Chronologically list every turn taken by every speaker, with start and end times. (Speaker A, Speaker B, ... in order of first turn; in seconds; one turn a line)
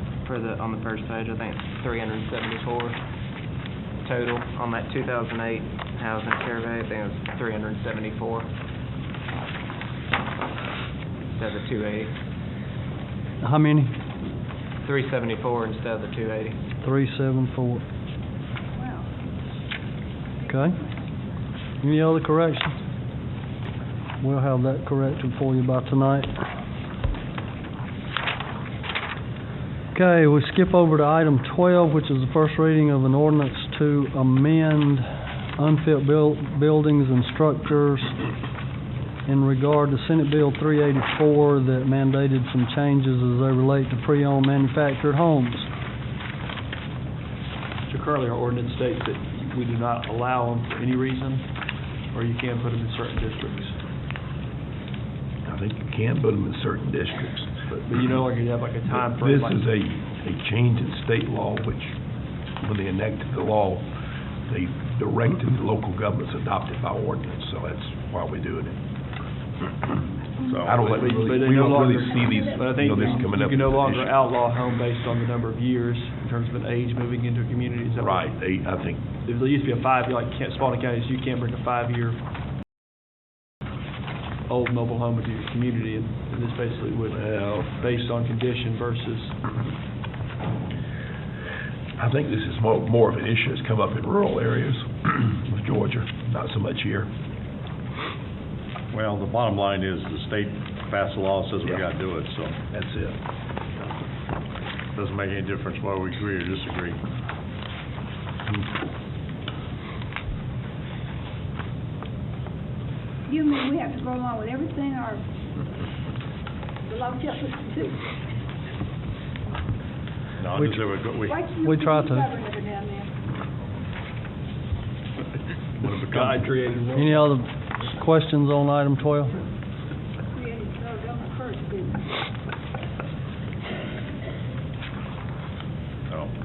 Speaker A: 0.2-3.0
Speaker A: 4.0-8.5
Speaker A: 11.3-12.1
Speaker B: 13.4-13.9
Speaker A: 14.8-16.6
Speaker B: 16.8-17.8
Speaker C: 18.7-19.3
Speaker C: 20.4-20.9
Speaker B: 20.5-20.8
Speaker B: 21.8-22.8
Speaker B: 24.2-26.4
Speaker B: 29.9-38.2
Speaker B: 39.3-45.7
Speaker D: 47.9-51.5
Speaker D: 52.1-53.8
Speaker E: 55.5-57.8
Speaker D: 57.7-59.7
Speaker E: 58.9-62.0
Speaker E: 62.6-63.9
Speaker E: 64.5-68.8
Speaker F: 70.5-71.0
Speaker E: 70.6-74.3
Speaker D: 70.8-78.3
Speaker C: 71.3-73.3
Speaker E: 78.0-79.0
Speaker D: 79.2-82.2
Speaker D: 84.5-89.4
Speaker E: 87.1-88.0
Speaker E: 92.0-97.1
Speaker F: 98.9-102.6
Speaker E: 102.7-103.2
Speaker F: 105.0-107.0
Speaker C: 113.3-115.2
Speaker C: 116.9-118.0
Speaker F: 120.4-121.5
Speaker B: 120.5-120.9
Speaker C: 121.1-123.1
Speaker B: 121.6-122.3
Speaker F: 125.8-126.5
Speaker D: 125.8-127.3
Speaker B: 126.9-129.4
Speaker C: 130.3-132.1